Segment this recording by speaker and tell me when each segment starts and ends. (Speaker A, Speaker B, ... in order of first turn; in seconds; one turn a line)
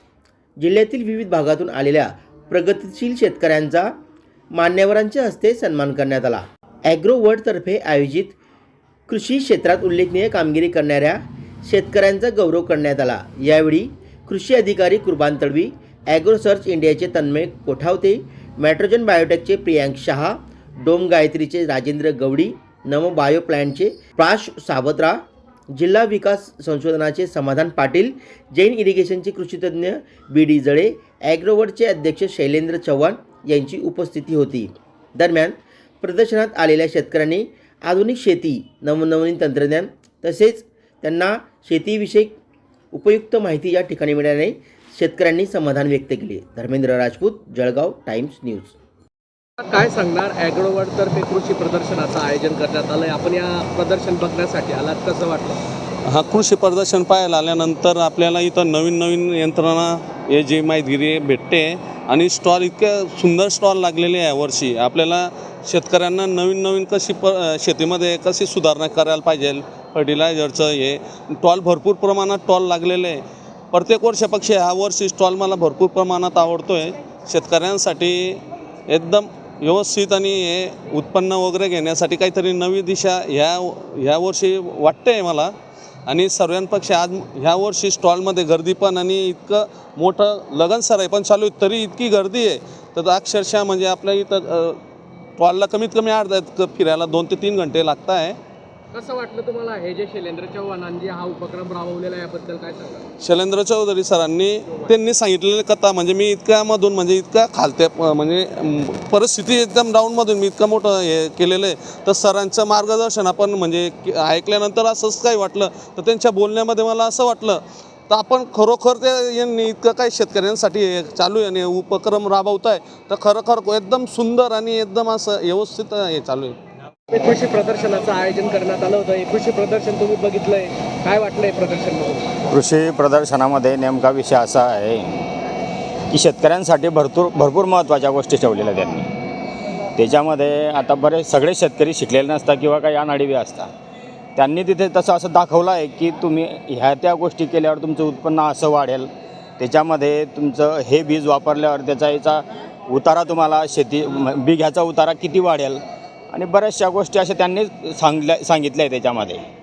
Speaker A: 0.6-3.9
Speaker A: 4.5-8.4
Speaker A: 9.1-25.2
Speaker A: 25.7-42.3
Speaker A: 42.9-48.7
Speaker B: 49.6-55.6
Speaker C: 56.1-85.5
Speaker C: 86.1-94.8
Speaker C: 95.4-98.4
Speaker B: 98.9-103.0
Speaker C: 103.2-126.6
Speaker B: 127.1-132.3
Speaker D: 132.5-135.3
Speaker D: 136.1-139.1
Speaker D: 139.9-143.7
Speaker D: 144.3-155.8
Speaker D: 156.3-159.4